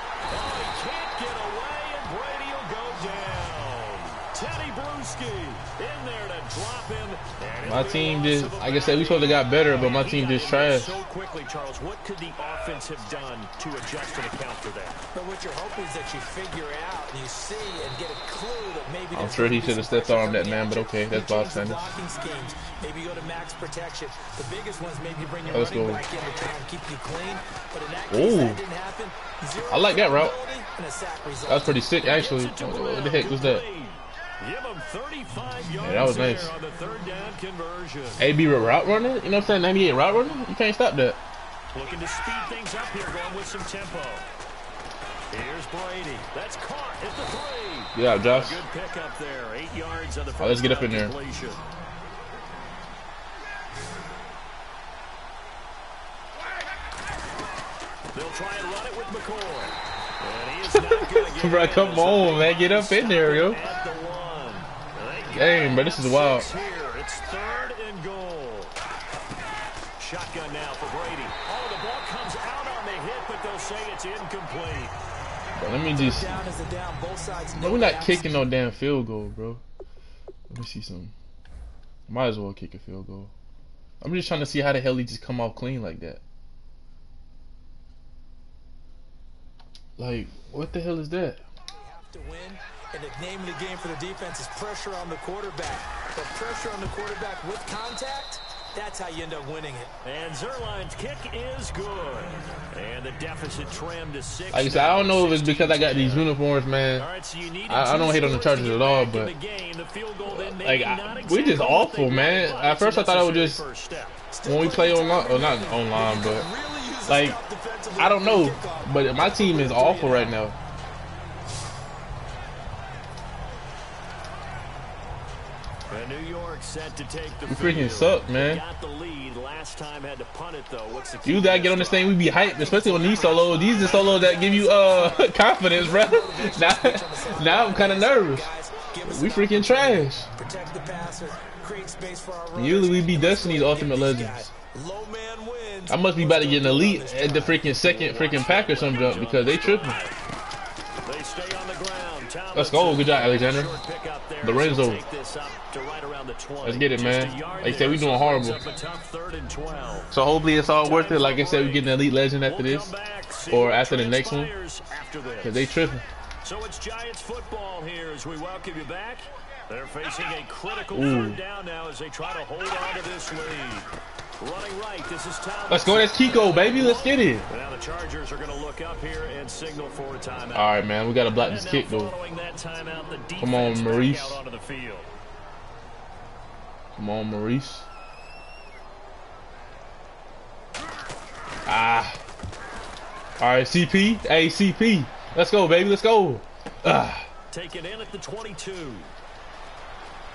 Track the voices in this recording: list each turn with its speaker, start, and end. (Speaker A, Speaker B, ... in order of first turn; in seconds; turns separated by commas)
Speaker A: 0.3-15.0, Speaker B: 7.6-11.0, Speaker C: 15.1-31.8, Speaker B: 19.1-21.9, Speaker B: 25.5-26.0, Speaker B: 28.1-28.6, Speaker B: 29.7-30.3, Speaker B: 31.4-33.6, Speaker A: 32.0-38.2, Speaker B: 35.8-36.5, Speaker B: 38.2-41.2, Speaker A: 41.7-44.3, Speaker A: 45.3-51.6, Speaker B: 47.9-48.6, Speaker B: 50.4-51.1, Speaker A: 58.1-68.7, Speaker B: 60.7-63.6, Speaker B: 65.3-66.5, Speaker A: 70.0-74.9, Speaker B: 75.6-76.3, Speaker C: 75.9-78.5, Speaker B: 77.6-79.6, Speaker B: 80.5-81.1, Speaker B: 82.1-83.3, Speaker B: 84.0-86.2, Speaker B: 90.0-91.4, Speaker C: 91.7-99.9, Speaker A: 100.0-106.3, Speaker B: 104.5-107.1, Speaker A: 107.0-114.2, Speaker B: 107.7-109.3, Speaker B: 110.2-113.6, Speaker C: 114.3-120.3, Speaker B: 114.4-116.5, Speaker B: 117.1-117.4, Speaker B: 117.9-120.5, Speaker A: 125.9-132.2, Speaker B: 127.5-128.6, Speaker B: 131.2-138.5, Speaker C: 132.3-147.6, Speaker B: 139.0-140.3, Speaker B: 142.5-144.5, Speaker B: 145.9-150.0, Speaker A: 147.8-150.2, Speaker A: 151.0-160.1, Speaker B: 152.5-153.8, Speaker B: 154.4-155.0, Speaker B: 156.6-158.6, Speaker B: 160.1-162.9, Speaker A: 160.8-165.7, Speaker B: 163.5-164.5, Speaker B: 165.4-166.0, Speaker A: 166.4-185.1, Speaker B: 170.9-171.4, Speaker B: 175.7-177.4, Speaker B: 180.5-182.1, Speaker B: 183.4-184.4, Speaker B: 186.9-187.9, Speaker B: 191.7-192.2, Speaker B: 193.4-197.3, Speaker A: 197.5-199.1